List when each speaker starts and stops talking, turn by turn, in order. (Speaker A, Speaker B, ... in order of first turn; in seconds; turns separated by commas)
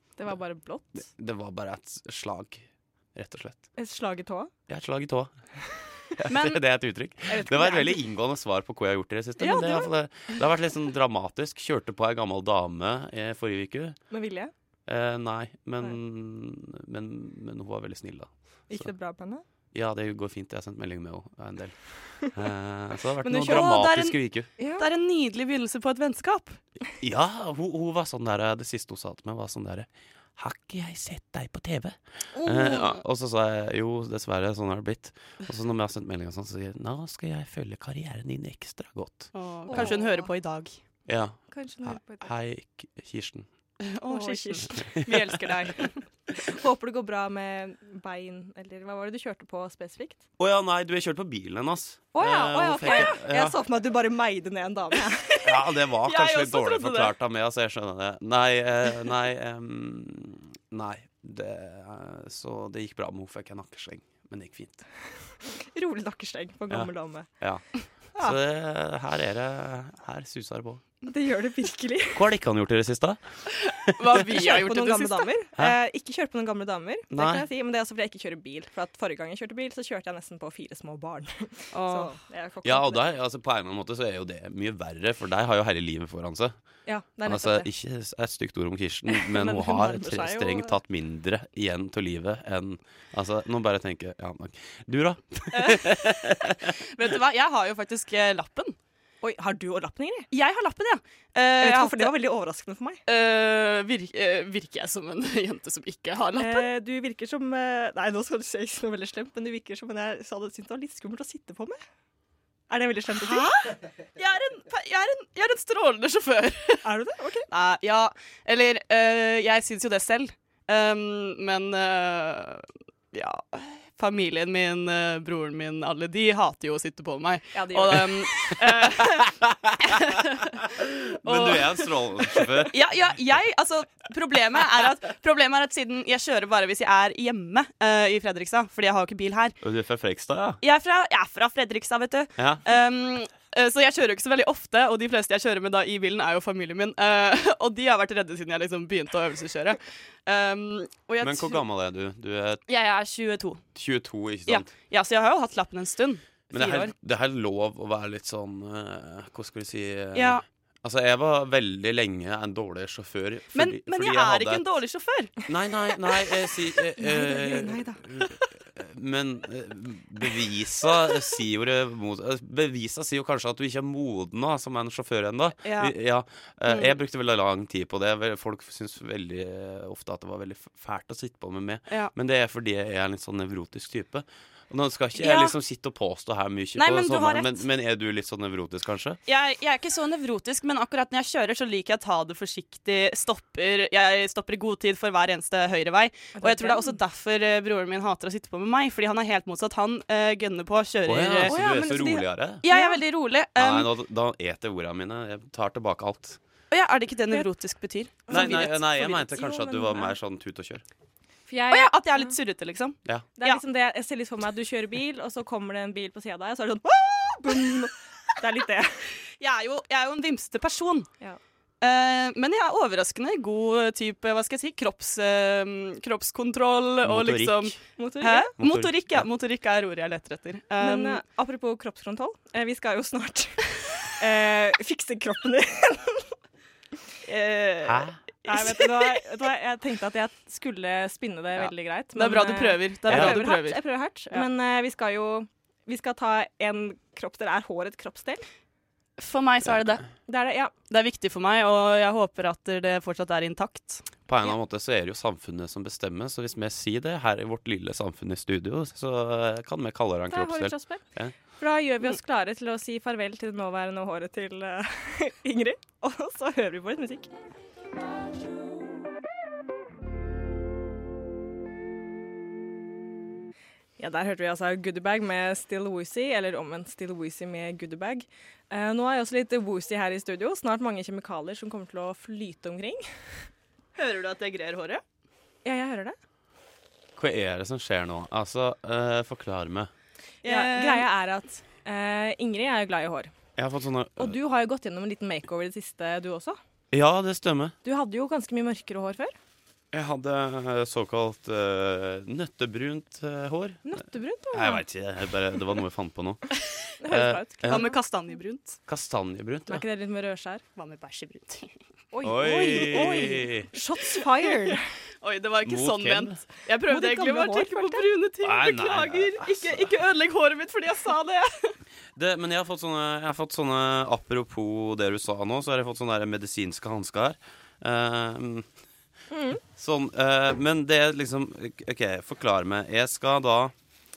Speaker A: 0.2-1.1, Speaker B: 1.0-3.7, Speaker A: 3.8-4.5, Speaker B: 4.7-5.4, Speaker B: 6.1-14.0, Speaker C: 6.3-6.6, Speaker A: 7.3-8.0, Speaker A: 9.4-9.9, Speaker A: 14.1-14.5, Speaker B: 14.9-18.9, Speaker A: 18.7-19.4, Speaker B: 19.7-24.5, Speaker A: 23.2-23.8, Speaker C: 23.4-24.2, Speaker A: 24.6-24.9, Speaker C: 24.8-26.6, Speaker B: 27.0-39.9, Speaker A: 32.3-33.0, Speaker C: 39.3-40.8, Speaker A: 39.7-40.3, Speaker B: 41.1-43.5, Speaker A: 41.5-42.3, Speaker C: 43.8-46.0, Speaker A: 44.1-45.0, Speaker B: 44.9-45.5, Speaker A: 46.3-50.2, Speaker B: 50.4-53.6, Speaker A: 52.1-55.5, Speaker C: 52.8-53.1, Speaker B: 55.4-64.8, Speaker C: 56.0-57.1, Speaker A: 65.4-67.3, Speaker B: 66.7-67.6, Speaker B: 68.1-70.8, Speaker A: 71.0-72.2, Speaker B: 72.1-73.2, Speaker C: 73.6-75.3, Speaker B: 73.8-74.2, Speaker A: 74.1-83.1, Speaker B: 77.1-77.5, Speaker C: 81.7-82.1, Speaker B: 82.6-86.5, Speaker A: 86.9-87.7, Speaker B: 87.2-96.8, Speaker A: 89.1-90.8, Speaker C: 95.5-98.8, Speaker A: 99.2-100.3, Speaker C: 100.3-102.1, Speaker A: 101.6-103.0, Speaker C: 103.1-106.7, Speaker A: 106.4-111.8, Speaker A: 112.7-113.7, Speaker C: 113.2-116.8, Speaker A: 116.8-117.5, Speaker C: 117.5-131.9, Speaker A: 127.5-128.1, Speaker B: 128.6-132.8, Speaker C: 132.7-139.6, Speaker B: 139.6-140.6, Speaker C: 140.6-151.6, Speaker B: 151.2-152.6, Speaker C: 152.7-153.6, Speaker B: 153.8-154.7, Speaker C: 154.5-156.9, Speaker B: 156.5-164.6, Speaker C: 160.1-160.4, Speaker C: 163.5-165.4, Speaker B: 165.5-189.2, Speaker A: 167.0-168.0, Speaker C: 175.6-175.9, Speaker C: 176.7-177.0, Speaker C: 181.9-182.1, Speaker C: 185.2-185.6, Speaker C: 186.8-187.6, Speaker C: 189.3-201.6, Speaker A: 196.4-196.9, Speaker B: 201.0-202.6, Speaker A: 201.5-203.0, Speaker C: 202.6-203.9, Speaker B: 203.6-206.4, Speaker C: 206.7-208.7, Speaker A: 208.3-210.1, Speaker B: 208.3-210.8, Speaker A: 211.5-212.3, Speaker C: 211.7-213.6, Speaker A: 213.4-219.1, Speaker C: 219.4-221.1, Speaker C: 221.8-231.2, Speaker B: 227.0-227.8, Speaker A: 228.0-228.5, Speaker B: 228.6-229.3, Speaker A: 230.8-236.3, Speaker C: 237.2-239.3, Speaker B: 237.8-238.2, Speaker A: 238.4-248.4, Speaker C: 242.1-244.5, Speaker B: 243.1-243.4, Speaker C: 249.2-250.0, Speaker A: 250.3-250.7, Speaker C: 250.9-254.1, Speaker B: 254.3-261.3, Speaker A: 260.3-261.0, Speaker A: 261.6-267.3, Speaker A: 274.0-283.4, Speaker C: 283.9-285.0, Speaker A: 285.6-286.1, Speaker B: 287.1-289.9, Speaker C: 290.4-291.1, Speaker A: 290.4-293.3, Speaker B: 293.6-294.4, Speaker A: 294.2-296.6, Speaker B: 296.9-297.8, Speaker A: 297.8-299.4, Speaker B: 299.9-306.4, Speaker A: 303.9-304.8, Speaker A: 307.0-308.0, Speaker B: 307.1-307.9, Speaker C: 307.6-308.8, Speaker B: 308.9-309.8, Speaker A: 309.7-310.6, Speaker C: 310.8-311.7, Speaker A: 312.1-314.9, Speaker B: 312.2-313.7, Speaker C: 312.6-313.4, Speaker C: 315.2-321.8, Speaker B: 315.6-316.4, Speaker A: 316.9-318.1, Speaker B: 318.4-319.9, Speaker B: 322.1-328.7, Speaker A: 329.3-329.6, Speaker B: 329.7-333.7